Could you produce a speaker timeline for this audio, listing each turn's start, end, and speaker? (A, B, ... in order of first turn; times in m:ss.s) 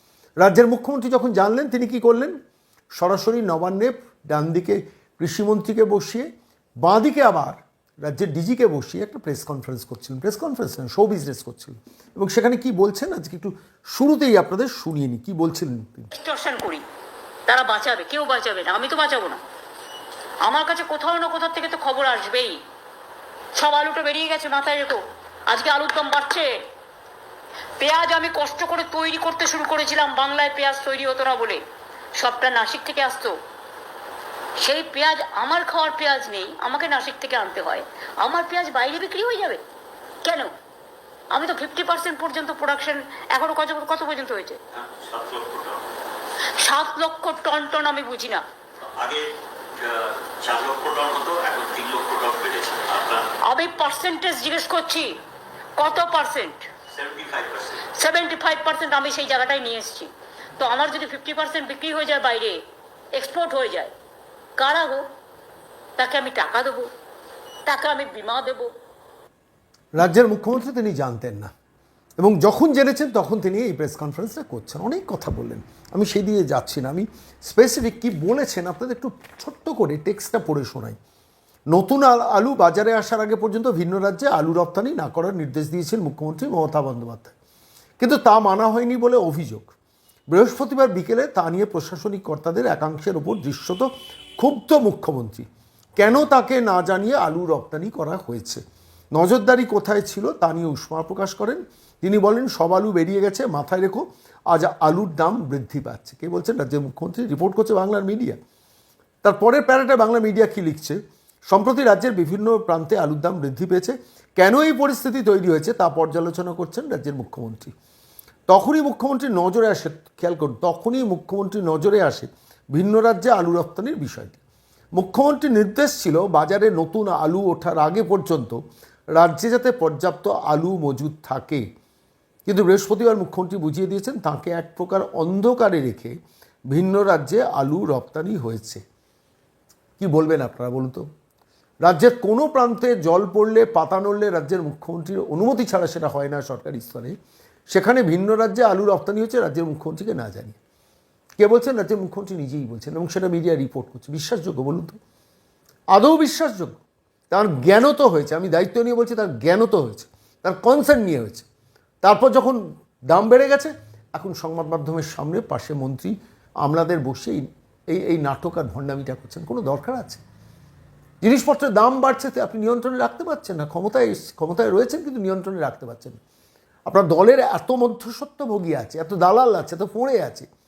0:00.4-0:02.3 A
0:03.0-0:06.3 A
0:06.8-0:16.1 A
0:16.1-0:16.8 B
0:17.5-0:19.4 B
0:20.4-0:22.6 B
0:23.5-0:26.5 B
0:27.8-0:31.6 B
0:32.2-0:33.3 B
0:34.6-0:39.6 B
0:40.2-0:40.5 B
0:41.3-0:44.6 B
0:44.7-0:45.9 C
0:46.6-0:48.4 B
0:48.8-0:49.3 C
0:49.8-0:53.3 C
0:53.4-0:55.1 B
0:55.8-0:56.7 B
0:56.9-0:57.9 C
0:57.9-1:02.6 B
1:03.1-1:03.9 B
1:04.6-1:05.0 B
1:06.0-1:06.9 B
1:07.7-1:08.7 B
1:10.0-1:11.5 A
1:12.2-1:21.0 A
1:21.7-1:27.3 A
1:28.0-1:29.7 A
1:30.3-1:35.4 A
1:36.0-1:38.6 A
1:39.1-1:48.4 A
1:49.2-1:57.7 A
1:58.5-2:04.4 A
2:05.0-2:08.6 A
2:09.1-2:11.6 A
2:12.5-2:16.2 A
2:16.7-2:18.8 A
2:20.0-2:21.1 A
2:21.8-2:27.2 A
2:27.7-2:30.6 A
2:31.4-2:35.0 A
2:35.9-2:36.8 A
2:37.3-2:41.5 A
2:42.0-2:50.2 A
2:51.2-2:56.2 A
2:56.9-3:00.5 A